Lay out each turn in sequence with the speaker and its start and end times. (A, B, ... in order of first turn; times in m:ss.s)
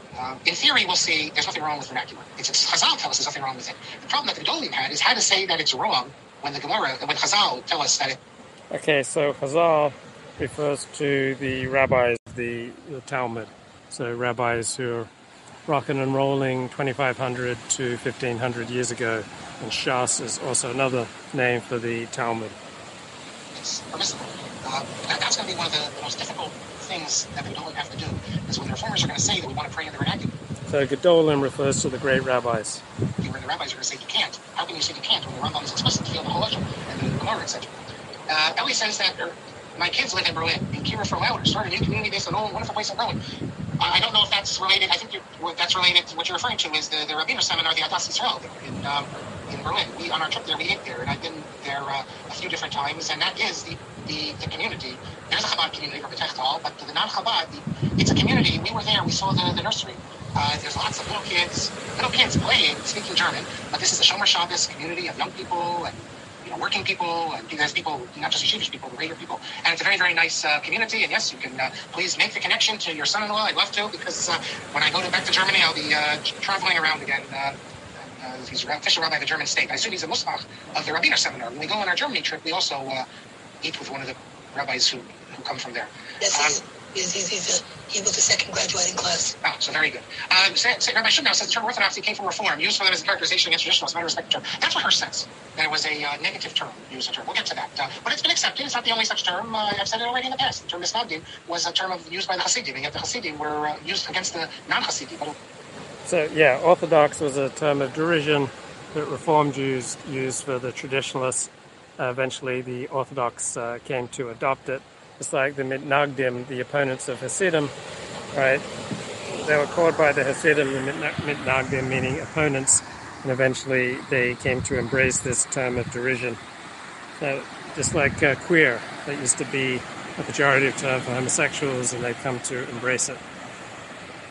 0:00.2-0:08.2 A
0:08.7-0:15.1 B
0:15.7-0:22.6 B
0:23.5-0:30.3 A
0:30.7-0:32.8 B
0:33.2-0:37.7 A
0:38.3-0:43.2 A
0:43.8-1:23.0 A
1:23.6-1:26.6 A
1:26.2-1:29.4 C
1:29.4-1:45.4 A
1:46.0-1:57.7 B
1:58.3-1:58.6 B
1:59.3-2:06.4 B
2:07.2-2:13.2 B